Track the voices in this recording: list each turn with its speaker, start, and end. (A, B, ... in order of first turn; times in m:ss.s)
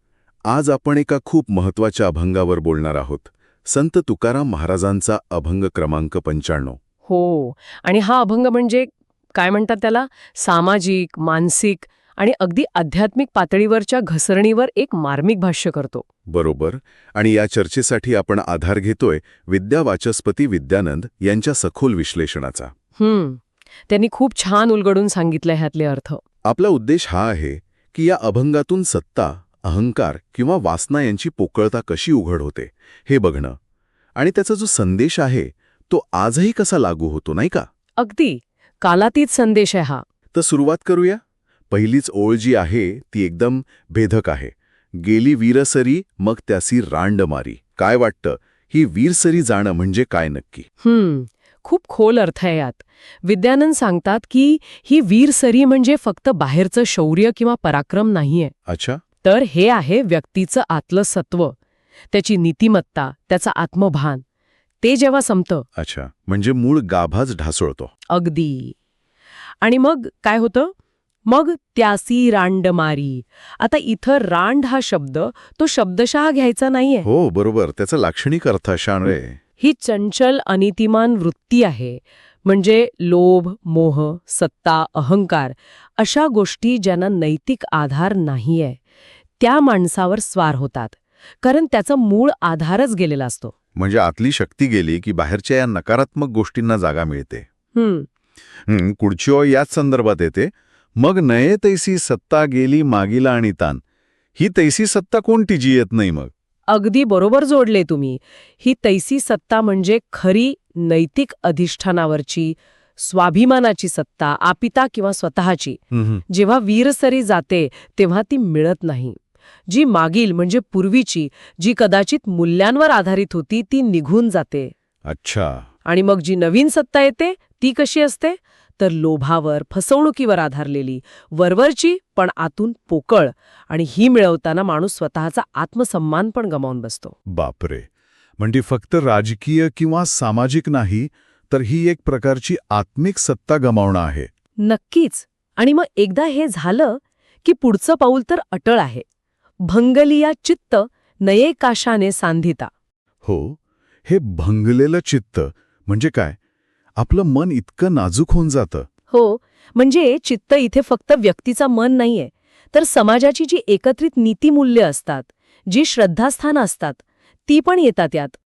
0:00.5-0:06.8 A
0:07.1-0:16.1 B
0:16.3-0:22.7 A
0:23.0-0:26.2 B
0:26.5-0:33.6 A
0:34.2-0:37.7 A
0:38.0-0:40.0 B
0:40.3-0:50.7 A
0:50.8-0:58.5 B
0:58.7-0:59.0 A
0:59.2-1:01.6 B
1:02.1-1:04.2 B
1:04.8-1:05.7 B
1:05.8-1:07.9 A
1:08.1-1:08.8 B
1:09.6-1:10.7 B
1:11.3-1:17.1 B
1:17.0-1:19.4 A
1:19.6-1:28.8 B
1:29.4-1:33.5 B
1:33.8-1:37.5 A
1:37.8-1:38.1 B
1:38.7-1:43.8 A
1:44.4-1:46.3 A
1:46.7-2:04.7 B
1:55.9-1:56.2 A
2:05.1-2:05.7 A
2:05.9-2:17.2 B
2:17.3-2:17.9 A
2:18.4-2:24.3 A
2:24.6-2:29.0 B
2:29.6-2:32.7 B
2:33.2-2:36.4 A
2:37.0-2:38.9 A
2:39.1-2:48.4 B